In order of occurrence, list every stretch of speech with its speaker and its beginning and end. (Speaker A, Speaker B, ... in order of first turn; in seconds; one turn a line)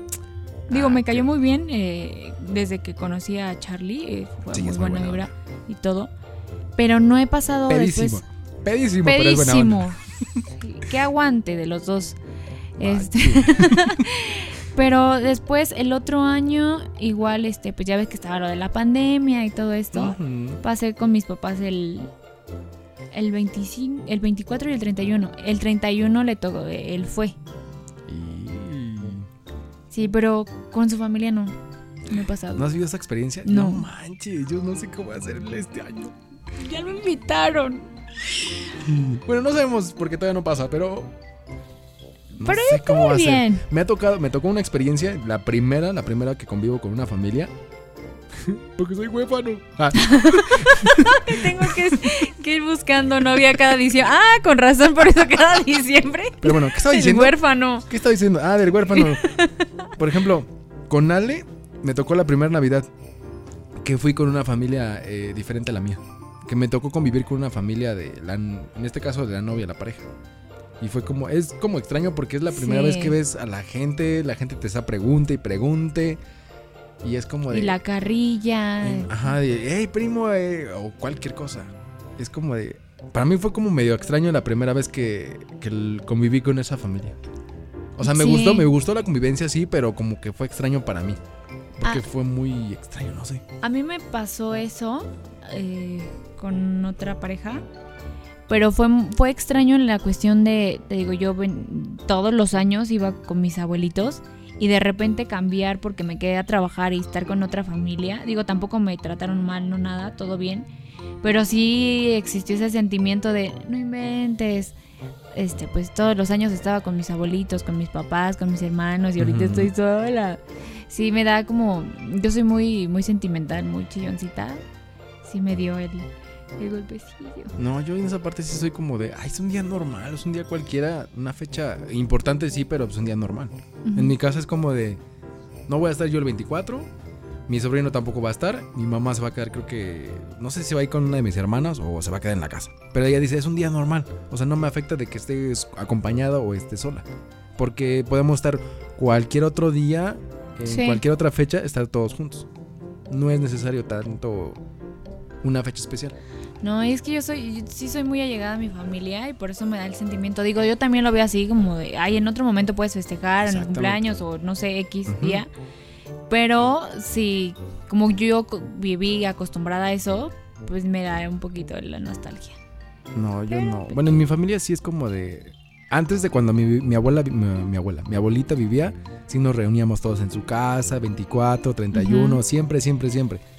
Speaker A: 0.7-1.3
Speaker B: 0.7-6.1
Speaker A: 4.5-5.3
Speaker B: 6.8-8.2
Speaker A: 7.7-10.4
Speaker B: 9.0-12.2
Speaker A: 12.8-14.0
Speaker B: 12.8-22.1
Speaker A: 19.9-20.6
Speaker B: 23.1-27.4
Speaker A: 28.1-29.3
Speaker B: 29.9-31.6
Speaker B: 32.1-32.7
Speaker A: 32.5-36.1
Speaker B: 33.4-33.9
Speaker B: 36.5-37.9
Speaker A: 38.8-41.1
Speaker A: 42.3-47.5
Speaker B: 42.4-43.6
Speaker A: 48.4-52.0
Speaker B: 49.9-57.9
Speaker A: 56.4-59.3
Speaker B: 58.9-59.7
Speaker A: 60.0-62.9
Speaker A: 63.8-70.1
Speaker A: 70.8-76.2
Speaker B: 72.5-73.2
Speaker A: 77.0-77.8
Speaker B: 77.5-79.2
Speaker A: 78.8-87.2
Speaker A: 88.0-91.2
Speaker B: 88.0-88.7
Speaker A: 91.8-93.4
Speaker B: 93.6-97.6
Speaker B: 98.5-110.7
Speaker B: 111.2-114.8
Speaker B: 115.3-124.6
Speaker A: 119.2-119.7
Speaker B: 125.2-127.5
Speaker A: 127.6-135.0
Speaker B: 133.8-134.2
Speaker A: 135.7-136.9
Speaker A: 137.5-152.5
Speaker B: 150.6-151.0
Speaker A: 153.1-154.6
Speaker A: 155.4-156.2
Speaker B: 156.6-165.5
Speaker A: 163.4-164.0
Speaker A: 165.1-165.4
Speaker B: 166.3-172.6
Speaker A: 173.1-183.4
Speaker B: 173.5-174.2
Speaker B: 181.9-182.4